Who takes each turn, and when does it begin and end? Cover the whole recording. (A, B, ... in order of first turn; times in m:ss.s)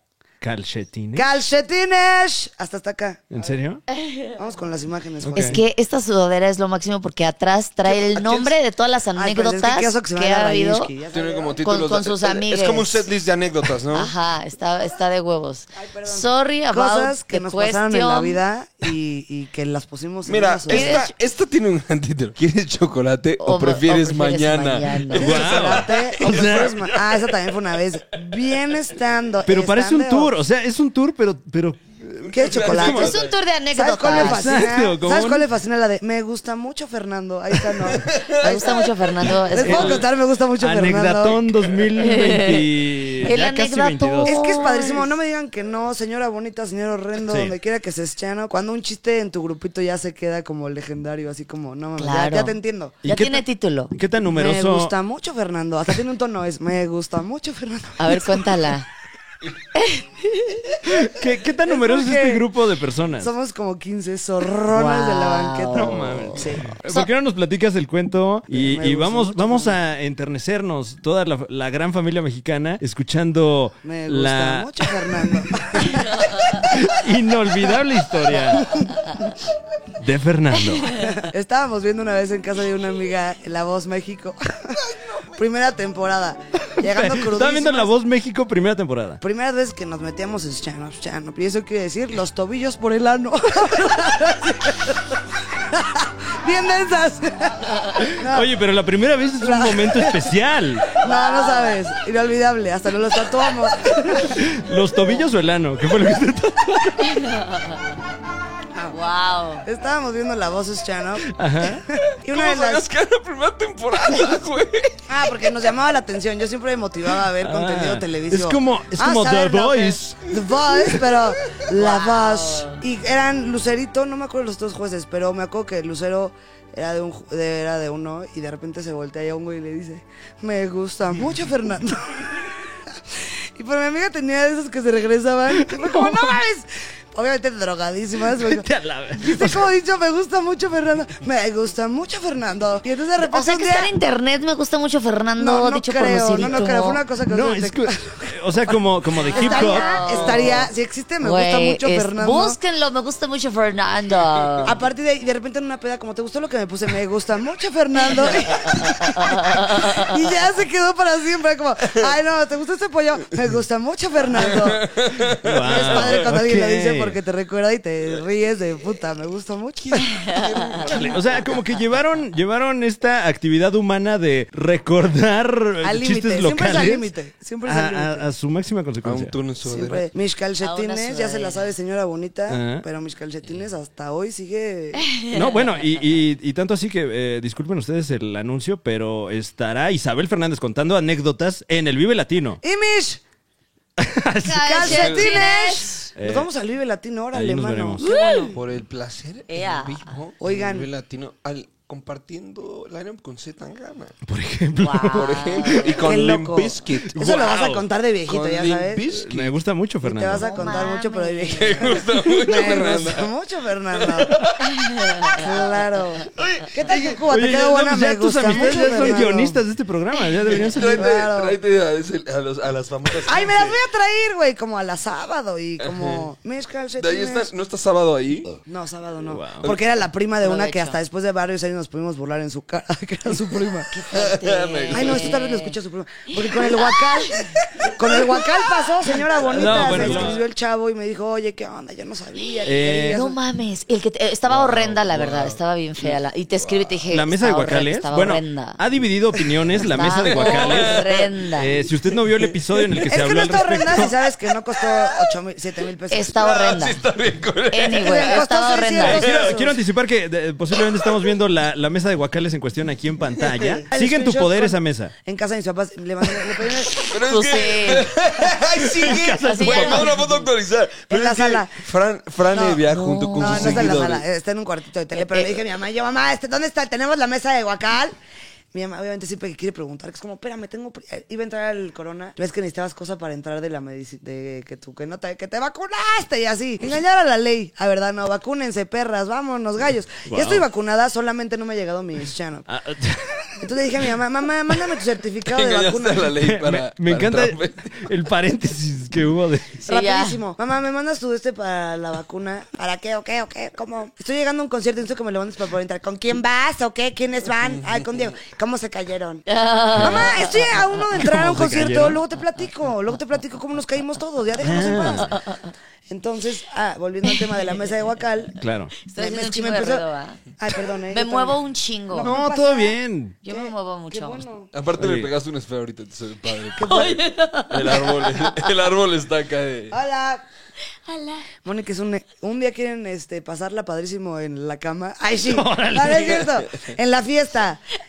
0:00.4-0:01.3 A
0:01.1-0:03.5 B
0:03.3-0:03.8 A
0:03.9-0:04.4 C
0:04.4-0:05.6 B
0:05.2-0:05.6 A
0:05.3-0:10.9 C
0:08.1-0:08.5 D
0:09.2-0:11.6 B
0:11.1-0:14.1 D
0:11.6-0:13.0 C
0:13.9-0:18.4 C
0:15.7-0:21.0 B
0:20.3-0:27.5 D
0:20.7-0:21.1 C
0:23.4-0:25.4 C
0:25.1-0:30.3 B
0:25.1-0:26.8 A
0:29.4-0:33.0 A
0:32.2-0:33.3 D
0:32.3-0:33.2 B
0:32.6-0:34.7 C
0:33.7-0:38.9 B
0:34.1-0:35.5 A
0:37.7-0:39.8 D
0:38.3-0:40.0 C
0:39.5-0:41.4 B
0:39.6-0:44.4 A
0:42.0-0:42.7 C
0:43.2-0:45.1 C
0:44.2-0:52.9 B
0:47.3-0:47.5 A
0:52.0-0:53.9 C
0:53.0-0:54.9 A
0:54.3-0:58.5 B
0:58.0-0:58.9 C
0:59.7-1:00.6 C
1:00.8-1:03.3 A
1:01.6-1:02.4 B
1:03.2-1:06.8 B
1:04.7-1:07.1 C
1:05.7-1:18.8 A
1:08.5-1:09.8 B
1:13.8-1:16.4 B
1:18.6-1:19.0 B
1:20.0-1:21.0 A
1:20.9-1:27.9 B
1:26.8-1:29.2 A
1:29.2-1:38.5 B
1:38.0-1:40.8 A
1:39.4-1:40.3 B
1:40.9-1:44.4 B
1:41.0-1:41.8 C
1:44.1-1:47.2 A
1:47.0-1:47.7 C
1:48.9-1:49.6 C
1:49.6-1:52.8 B
1:51.3-1:51.8 A
1:52.3-1:55.0 D
1:55.1-2:12.6 B
1:57.4-2:00.2 A
2:00.7-2:01.2 D
2:01.7-2:02.8 C
2:13.1-2:23.9 B
2:15.5-2:16.4 A
2:18.3-2:19.7 A
2:23.2-2:27.0 C
2:25.4-2:28.8 B
2:27.3-2:30.1 A
2:29.2-2:30.7 C
2:29.3-2:32.6 B
2:31.2-2:34.8 C
2:34.6-2:44.9 B
2:38.3-2:40.0 C
2:44.3-2:46.2 D
2:45.4-2:47.2 A
2:45.6-2:50.2 B
2:49.8-2:51.6 D
2:50.2-2:50.7 C
2:50.9-2:57.1 A
2:55.8-2:58.3 B
2:57.6-2:59.3 A
2:59.0-3:00.0 D
2:59.6-3:05.0 B
3:00.6-3:01.6 C
3:02.5-3:02.8 A
3:04.9-3:05.9 C
3:05.3-3:12.6 A
3:12.6-3:13.2 B
3:14.0-3:15.0 A
3:14.4-3:16.1 C
3:14.6-3:18.6 B
3:14.8-3:15.4 D
3:16.2-3:16.5 A
3:17.3-3:18.0 A
3:18.0-3:18.6 C
3:18.5-3:24.1 D
3:19.5-3:20.2 C
3:20.4-3:20.9 B
3:24.2-3:25.5 A
3:24.8-3:26.0 C
3:25.1-3:27.2 D
3:26.0-3:29.0 B
3:27.1-3:27.8 A
3:28.3-3:29.5 D
3:29.1-3:30.6 A
3:30.0-3:34.4 B
3:30.3-3:32.1 C
3:31.5-3:33.3 D
3:33.9-3:35.5 D
3:34.7-3:35.4 C
3:35.4-3:39.6 B
3:36.3-3:37.2 D
3:37.3-3:41.1 A
3:38.6-3:39.1 D
3:40.5-3:43.8 D
3:40.8-3:41.6 B
3:43.2-3:47.5 B
3:45.8-3:46.2 D
3:47.0-3:48.6 D
3:48.6-3:54.0 B
3:49.3-3:49.7 A
3:50.4-3:51.0 C
3:53.9-3:55.7 C
3:54.1-3:55.3 D
3:54.9-4:03.4 B
3:56.4-3:57.4 C
3:57.3-4:00.4 D
3:59.5-4:00.4 A
4:02.6-4:03.2 A
4:03.1-4:08.8 C
4:04.5-4:07.0 D
4:07.1-4:14.1 A
4:09.8-4:11.7 C
4:10.1-4:11.3 D
4:12.1-4:13.1 D
4:13.1-4:16.4 B
4:14.8-4:15.3 D
4:16.1-4:17.0 C
4:16.3-4:18.4 D
4:17.7-4:19.2 C
4:17.9-4:19.8 B
4:19.0-4:25.1 A
4:19.1-4:19.6 D
4:23.9-4:27.0 B
4:26.9-4:34.2 D
4:27.1-4:28.1 C
4:28.8-4:30.1 A
4:29.0-4:30.5 C
4:31.1-4:31.7 B
4:32.5-4:32.8 B
4:32.9-4:34.0 C
4:33.4-4:38.2 B
4:35.1-4:35.6 C
4:38.7-4:52.6 B
4:50.3-4:50.6 A
4:52.7-4:53.7 A
4:53.6-4:56.3 B
4:55.4-4:58.0 D
4:56.3-4:59.8 A
4:59.8-5:00.4 C
4:59.8-5:09.4 B
5:07.6-5:08.1 D
5:09.5-5:10.8 C
5:09.9-5:10.4 A
5:10.0-5:15.4 B
5:11.1-5:12.2 A
5:14.6-5:15.3 A
5:15.3-5:15.5 C
5:16.1-5:18.6 B
5:17.2-5:17.6 C
5:18.6-5:18.9 A
5:19.0-5:20.4 C
5:19.2-5:20.0 B
5:20.6-5:21.6 B
5:21.1-5:22.4 C
5:22.1-5:23.0 B
5:22.2-5:23.4 A
5:23.4-5:24.4 C
5:23.5-5:24.7 B
5:24.7-5:30.0 D
5:25.0-5:25.3 A
5:26.7-5:28.7 C
5:26.8-5:27.2 B
5:29.9-5:30.4 B
5:31.1-5:31.5 C
5:31.6-5:37.8 B
5:35.4-5:36.5 A
5:36.3-5:36.8 D